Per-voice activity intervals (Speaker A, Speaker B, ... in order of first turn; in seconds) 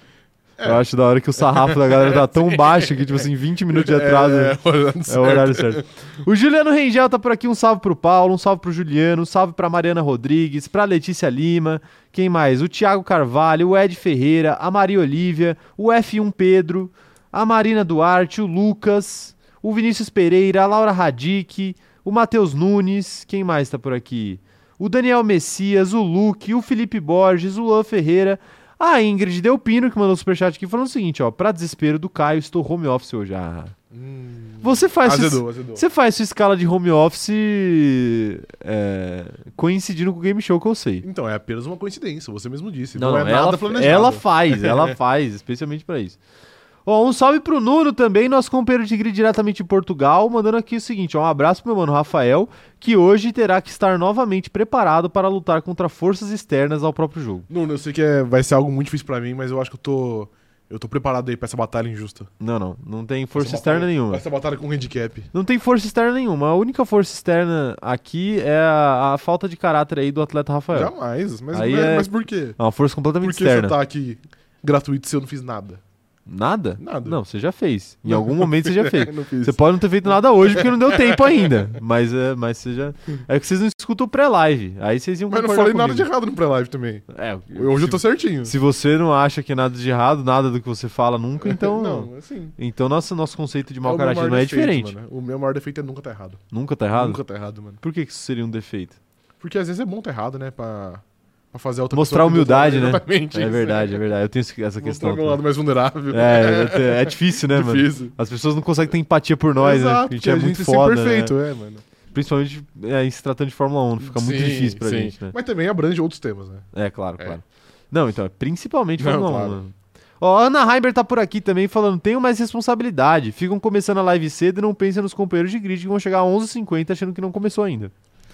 Speaker A: 0.6-33.8, 34.6-41.1, 43.0-46.2, 46.9-57.5, 62.4-64.2, 65.3-70.9, 71.5-73.8, 76.3-86.1, 87.1-95.0, 96.5-97.2, 97.8-99.0, 101.9-105.4, 106.1-111.3, 112.1-115.3, 116.7-127.9
Speaker B: 1.4-5.9, 33.9-35.8, 41.0-45.0, 57.5-62.3, 63.4-65.3, 70.7-72.6, 73.2-75.8, 76.8-77.2, 78.1-79.6, 80.5-81.5, 85.3-88.5, 91.4-92.5, 93.8-96.4, 97.0-97.8, 99.4-104.0, 104.8-108.2, 109.6-111.8, 114.0-116.7, 119.0-119.6